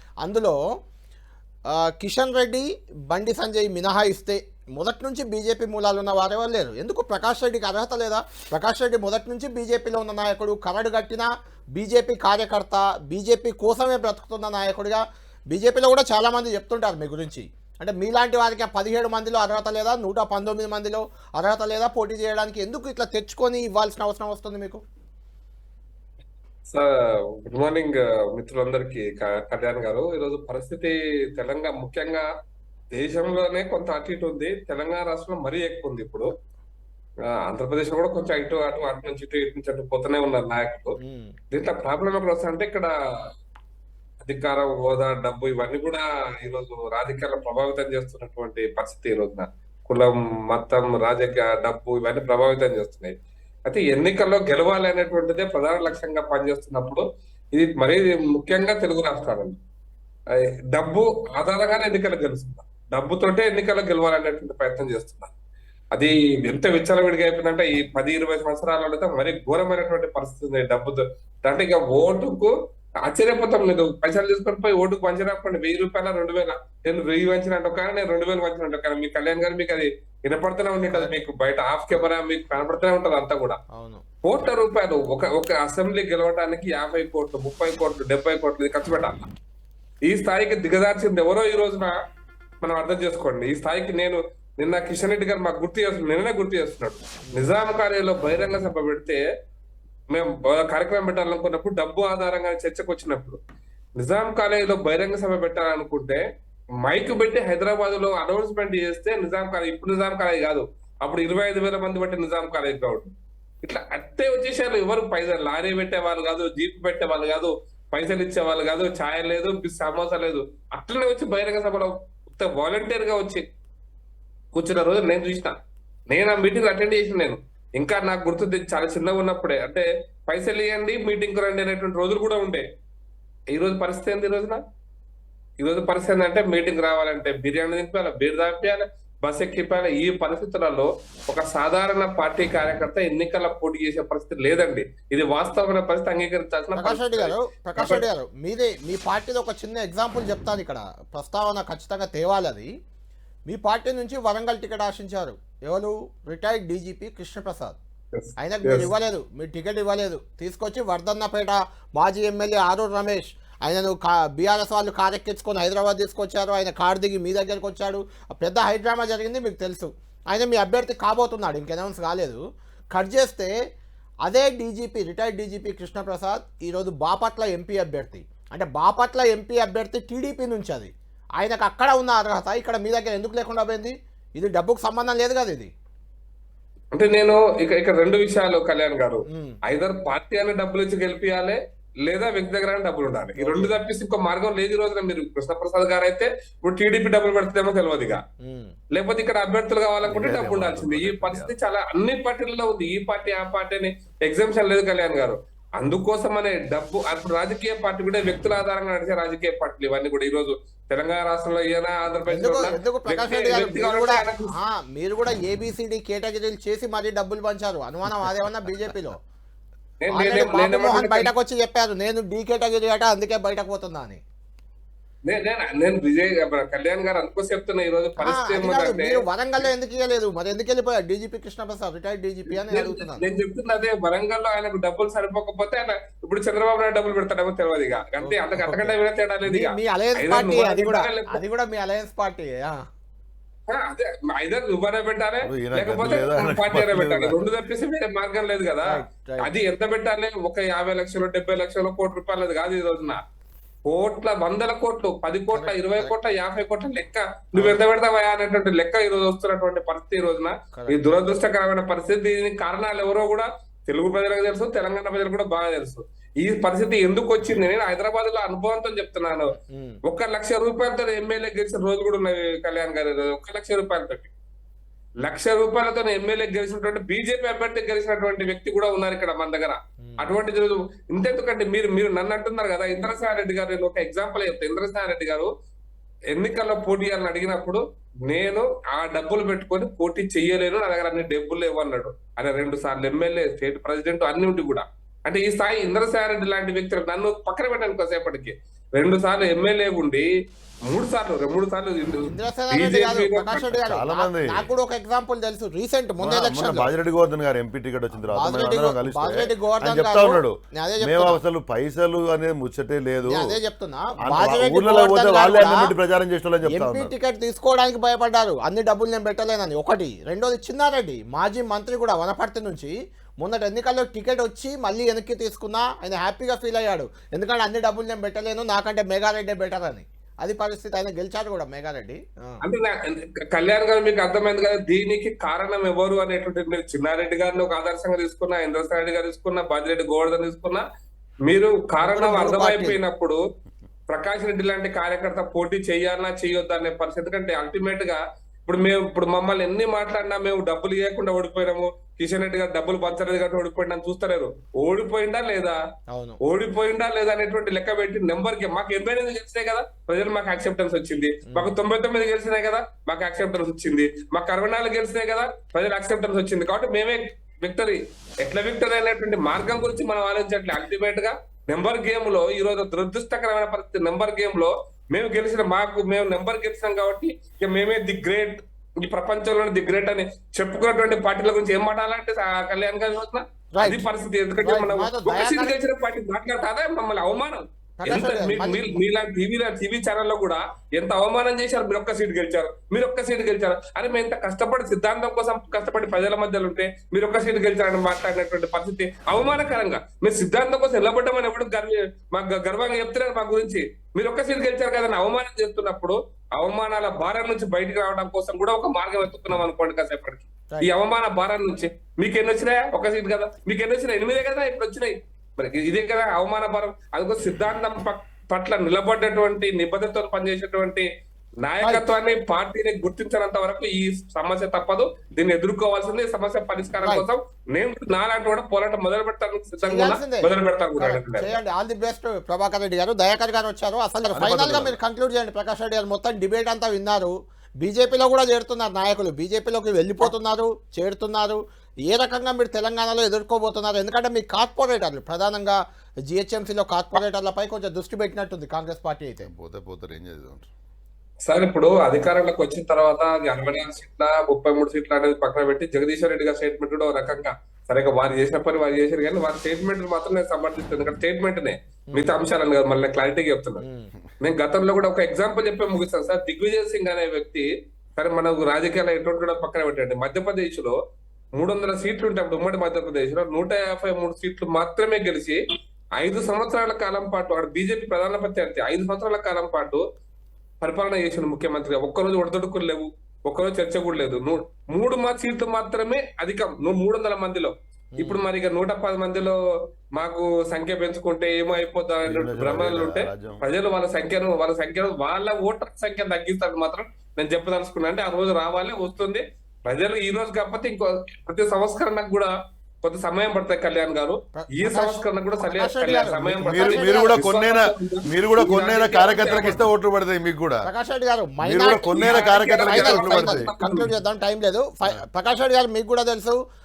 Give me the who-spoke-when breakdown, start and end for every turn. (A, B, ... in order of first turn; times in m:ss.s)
0:00.2-0:00.6 A
0:01.7-0:24.8 A
0:27.4-0:32.2 B
0:32.9-0:36.3 B
0:37.4-0:41.0 B
0:41.0-0:41.3 A
0:41.5-0:42.9 B
0:44.2-0:53.2 B
0:53.7-0:57.0 B
0:57.5-0:59.6 B
1:00.3-1:05.3 B
1:05.9-1:12.5 B
1:13.1-1:23.6 B
1:23.7-1:24.0 A
1:24.2-1:29.2 B
1:30.1-1:32.0 B
1:32.6-1:39.2 B
1:40.1-1:43.4 B
1:44.0-1:46.2 B
1:46.8-1:53.1 B
1:53.6-2:03.4 B
2:04.5-2:05.5 B
2:06.1-2:12.6 B
2:13.5-2:14.6 B
2:15.6-2:28.0 B
2:26.8-2:32.7 A
2:33.5-2:37.8 A
2:38.1-2:38.9 B
2:38.4-2:52.4 A
2:52.9-2:53.5 A
2:54.2-3:05.7 A
3:06.9-3:18.2 B
3:09.3-3:09.6 A
3:13.4-3:13.8 A
3:18.4-3:18.7 A
3:18.9-3:34.5 B
3:20.1-3:21.5 C
3:32.3-3:39.2 A
3:40.0-3:41.3 B
3:40.1-3:44.2 A
3:45.2-3:49.2 B
3:48.2-3:53.3 A
3:52.5-4:01.4 B
3:58.2-4:02.8 A
4:03.7-4:13.2 B
4:05.4-4:07.4 C
4:08.9-4:09.5 A
4:13.9-4:29.5 B
4:15.5-4:16.1 A
4:20.7-4:21.0 A
4:29.6-4:30.0 A
4:30.1-4:34.3 B
4:35.2-4:45.5 B
4:40.0-4:40.4 A
4:46.3-5:00.3 B
5:00.9-5:03.8 B
5:02.3-5:06.9 A
5:03.9-5:04.6 C
5:06.2-5:13.4 C
5:08.3-5:11.4 A
5:13.3-5:15.9 A
5:14.2-5:17.1 C
5:16.7-5:32.6 A
5:32.6-5:40.8 B
5:41.5-5:43.4 B
5:42.1-5:43.0 A
5:44.1-5:55.8 B
5:56.1-5:56.4 A
5:56.4-7:01.1 B
6:23.7-6:24.1 A
6:24.6-6:25.8 A
6:28.0-6:29.0 A
7:01.6-7:11.6 B
7:01.8-7:02.1 A
7:09.8-7:29.5 A
7:14.3-7:15.0 C
7:29.4-7:30.7 C
7:31.5-7:43.8 B
7:42.1-7:42.4 A
7:43.8-7:44.1 A
7:44.4-7:51.0 B
7:51.6-7:55.6 B
7:56.2-8:00.0 B
8:00.8-8:09.6 B
8:08.2-8:08.4 A
8:10.2-8:22.5 B
8:12.2-8:13.6 C
8:23.0-8:29.8 B
8:24.6-8:27.5 A
8:26.6-8:30.9 C
8:29.5-8:29.8 A
8:30.8-8:36.6 A
8:31.6-8:33.7 C
8:32.2-8:34.1 B